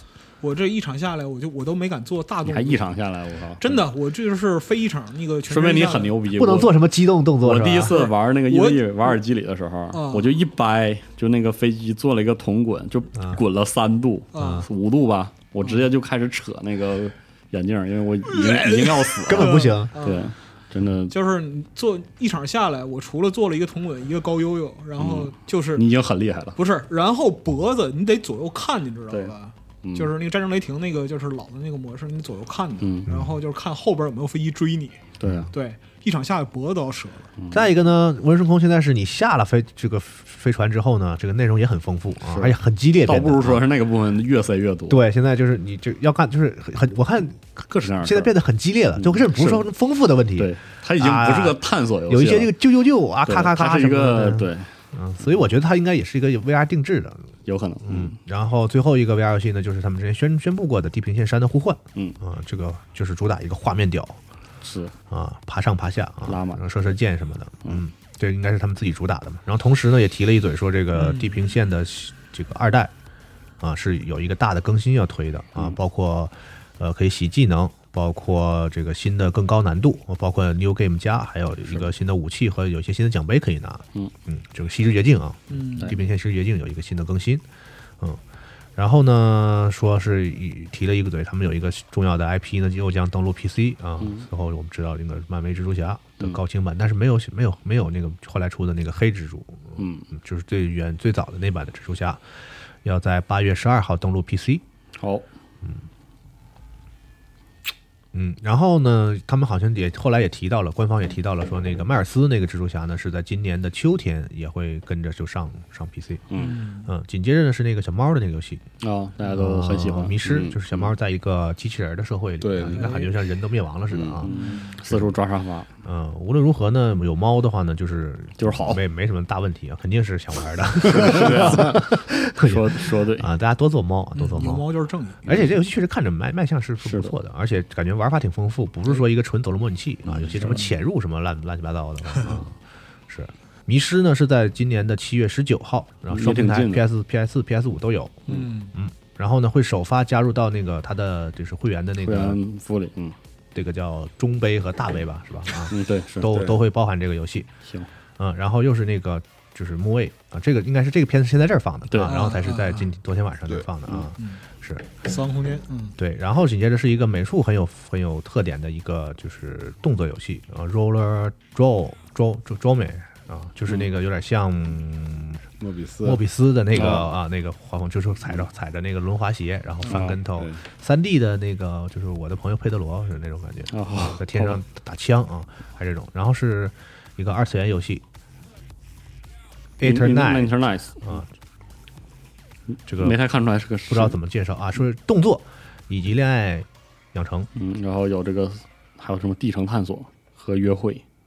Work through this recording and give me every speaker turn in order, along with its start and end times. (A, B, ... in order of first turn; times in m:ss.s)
0:00.4-0:02.9 A
0:02.4-0:03.8 B
0:03.6-0:06.1 A
0:05.5-0:06.8 B
0:06.3-0:08.0 C
0:07.4-0:21.2 B
0:07.8-0:09.0 A
0:09.9-0:10.3 A
0:13.1-0:13.4 C
0:14.3-0:14.6 A
0:14.4-0:14.6 C
0:18.3-0:20.3 A
0:19.3-0:19.9 C
0:21.1-0:25.9 A
0:25.0-0:26.6 B
0:26.6-0:37.3 A
0:29.1-0:30.1 B
0:32.8-0:33.1 B
0:33.1-0:33.4 C
0:35.2-0:35.5 B
0:37.4-0:37.7 B
0:37.5-0:43.6 C
0:42.2-0:45.0 B
0:44.9-0:57.3 C
0:47.7-0:48.3 B
0:49.0-0:49.7 B
0:50.4-0:52.6 B
0:53.2-0:54.7 B
0:57.4-0:58.2 B
0:57.8-1:04.2 C
1:04.6-1:04.9 B
1:05.1-1:12.9 C
1:06.2-1:06.6 B
1:10.9-1:11.4 A
1:13.6-1:27.4 C
1:25.5-1:26.0 A
1:28.8-1:42.2 C
1:34.0-1:34.3 B
1:39.8-1:40.1 B
1:42.8-1:44.6 C
1:45.0-1:45.2 B
1:48.1-1:56.2 C
1:56.3-1:56.6 B
1:56.4-1:56.9 A
1:56.8-1:58.6 C
1:58.8-2:00.8 B
1:59.3-2:04.3 C
2:00.2-2:00.6 D
2:02.4-2:02.8 D
2:02.7-2:03.1 A
2:03.9-2:04.2 D
2:04.2-2:05.7 B
2:04.2-2:04.8 A
2:05.8-2:14.6 C
2:08.4-2:08.8 B
2:10.8-2:13.3 B
2:14.1-2:15.3 A
2:15.2-2:22.5 C
2:16.8-2:17.1 B
2:20.0-2:20.7 B
2:23.1-2:32.4 C
2:26.1-2:26.8 B
2:28.3-2:28.7 A
2:32.0-2:33.2 B
2:33.5-2:37.5 C
2:35.7-2:36.4 B
2:36.3-2:36.5 D
2:38.2-2:44.8 C
2:41.9-2:42.2 B
2:42.0-2:42.9 A
2:45.0-2:46.0 A
2:46.0-2:55.4 C
2:55.6-2:56.2 D
2:56.0-3:08.0 C
2:56.7-2:57.1 B
2:59.8-3:00.2 B
3:03.7-3:04.6 B
3:09.8-3:11.3 C
3:09.8-3:11.1 B
3:12.9-3:13.2 C
3:13.0-3:14.2 B
3:13.9-3:17.5 C
3:17.5-3:21.0 B